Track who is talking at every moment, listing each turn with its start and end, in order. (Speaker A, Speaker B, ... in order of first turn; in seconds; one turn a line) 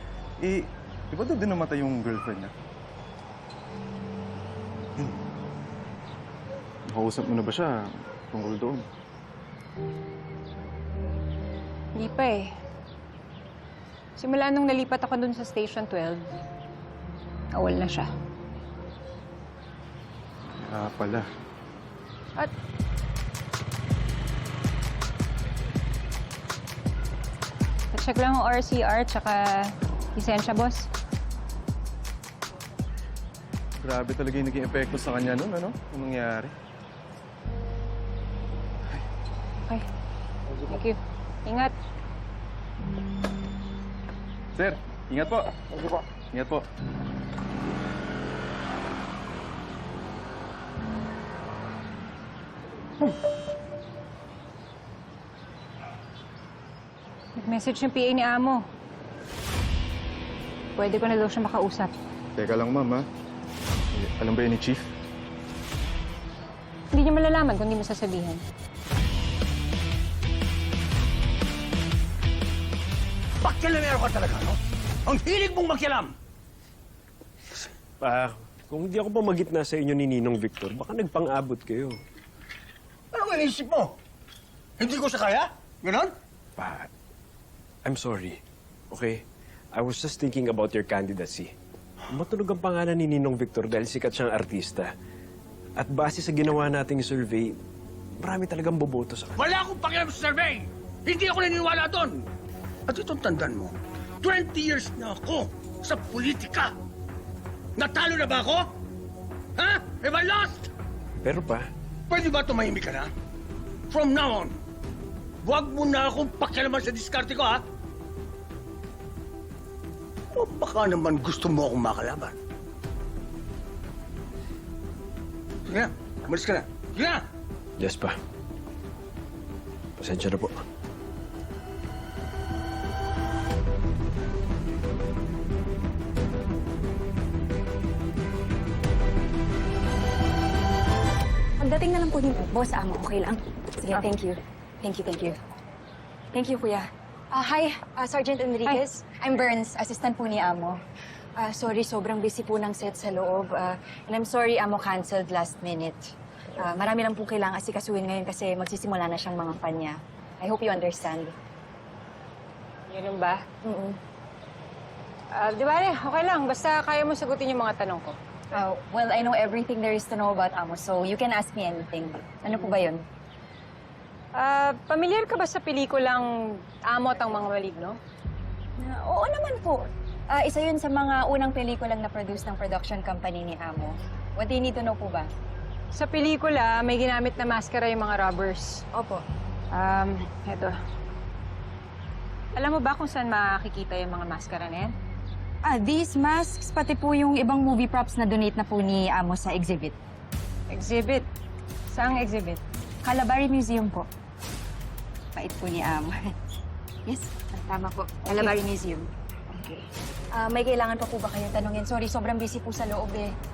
Speaker A: 0.4-2.5
Speaker A: 6.9-8.9
Speaker B: 11.9-12.5
Speaker B: 14.2-16.3
Speaker B: 17.6-18.1
Speaker A: 20.6-21.3
Speaker B: 27.9-30.9
Speaker A: 33.8-36.5
Speaker B: 40.6-41.7
Speaker A: 44.5-45.5
Speaker A: 46.3-46.7
Speaker B: 57.4-58.6
Speaker B: 60.8-61.9
Speaker A: 62.4-63.1
Speaker A: 63.9-64.9
Speaker B: 66.9-68.4
Speaker C: 73.4-76.1
Speaker D: 78.0-82.0
Speaker C: 83.1-84.0
Speaker C: 84.8-86.1
Speaker D: 86.6-86.9
Speaker D: 87.8-89.2
Speaker D: 89.7-91.5
Speaker D: 92.1-94.9
Speaker D: 95.8-97.6
Speaker D: 98.2-99.3
Speaker C: 99.4-102.2
Speaker C: 102.9-106.7
Speaker C: 107.8-108.7
Speaker C: 109.6-110.6
Speaker D: 111.2-111.7
Speaker C: 112.1-113.1
Speaker C: 113.9-114.5
Speaker C: 115.4-117.6
Speaker C: 120.3-122.4
Speaker C: 125.7-127.2
Speaker D: 127.8-128.2
Speaker D: 130.0-130.6
Speaker E: 141.6-145.4
Speaker E: 146.3-150.8
Speaker E: 151.4-161.3
Speaker B: 162.9-163.4
Speaker E: 163.6-164.0
Speaker B: 165.3-168.2
Speaker E: 168.5-173.0
Speaker B: 174.3-178.0
Speaker E: 178.8-185.3
Speaker B: 185.9-188.8
Speaker E: 188.9-189.2
Speaker B: 189.7-190.8
Speaker B: 192.5-194.9
Speaker E: 195.6-200.0
Speaker B: 200.7-201.3
Speaker B: 201.9-202.6
Speaker E: 203.0-204.1
Speaker E: 205.4-206.3
Speaker E: 207.1-209.1
Speaker B: 208.3-208.6
Speaker E: 210.3-213.3